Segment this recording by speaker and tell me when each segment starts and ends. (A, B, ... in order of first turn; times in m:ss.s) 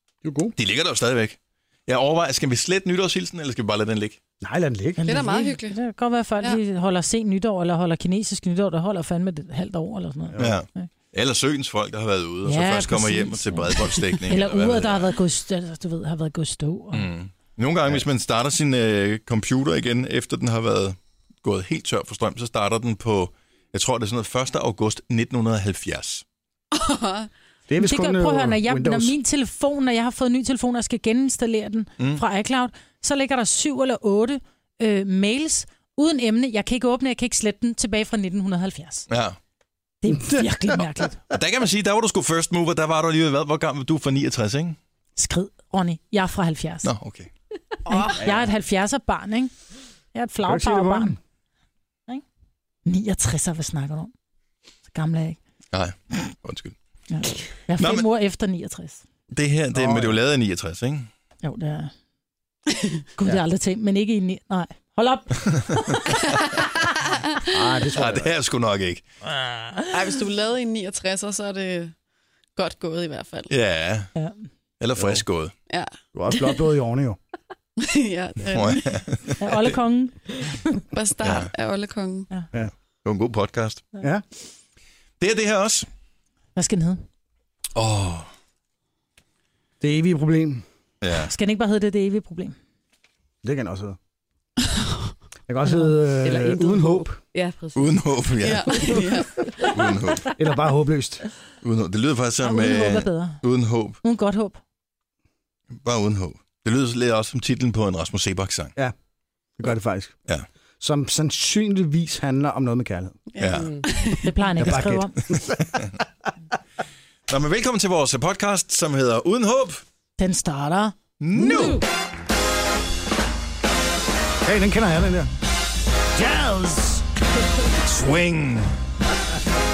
0:00.2-0:00.5 A
0:00.6-0:01.4 B
0:01.9-0:04.2 B
0:04.4-0:05.0 A
0:05.0-0:10.9 C
0:05.0-0:05.8 D
0:10.4-0:15.1 B
0:12.4-0:17.1 C
0:16.9-0:26.2 B
0:26.7-0:27.3 D
0:27.7-0:29.2 A
0:27.8-0:39.1 C
0:39.1-0:39.4 B
0:40.0-0:41.2 C
0:41.3-0:44.8 B
0:45.2-0:46.9 C
0:46.8-0:47.3 B
0:47.9-0:49.5 C
0:48.2-0:48.5 A
0:50.1-0:51.2 C
0:50.4-0:51.2 A
0:52.9-0:54.1 C
0:54.9-0:55.4 C
0:55.7-0:56.8 B
0:57.1-0:59.0 C
0:57.8-0:58.1 B
0:59.3-1:01.1 B
0:59.7-1:00.2 A
1:01.4-1:01.9 C
1:03.2-1:05.4 C
1:05.4-1:06.2 B
1:07.5-1:08.3 A
1:08.0-1:09.0 B
1:09.9-1:11.9 D
1:12.6-1:13.5 D
1:13.5-1:14.1 B
1:14.2-1:14.4 C
1:14.8-1:15.5 B
1:15.0-1:15.2 A
1:15.7-1:16.6 D
1:16.1-1:17.2 A
1:17.8-1:18.9 D
1:18.5-1:19.7 B
1:19.4-1:20.2 C
1:20.9-1:22.3 D
1:21.2-1:21.5 B
1:23.0-1:23.9 B
1:25.2-1:25.9 B
1:26.6-1:27.0 C
1:27.8-1:28.3 B
1:29.8-1:30.6 A
1:31.0-1:31.3 B
1:31.2-1:32.6 C
1:33.4-1:34.0 A
1:34.7-1:35.1 D
1:35.5-1:37.2 A
1:36.2-1:39.0 E
1:37.8-1:38.8 B
1:38.4-1:39.4 D
1:39.7-1:40.3 B
1:40.4-1:41.2 A
1:41.6-1:44.0 B
1:42.4-1:43.4 C
1:44.0-1:44.6 C
1:45.8-1:48.7 B
1:49.6-1:50.2 A
1:50.8-1:53.2 A
1:53.3-1:54.2 D
1:53.4-1:53.8 B
1:53.5-1:53.9 E
1:54.2-1:55.1 C
1:54.6-1:55.7 A
1:55.3-1:55.9 B
1:57.3-1:59.8 B
2:00.2-2:01.0 C
2:01.2-2:01.8 B
2:01.4-2:01.8 E
2:04.4-2:05.3 A
2:06.1-2:07.0 A
2:07.8-2:08.7 B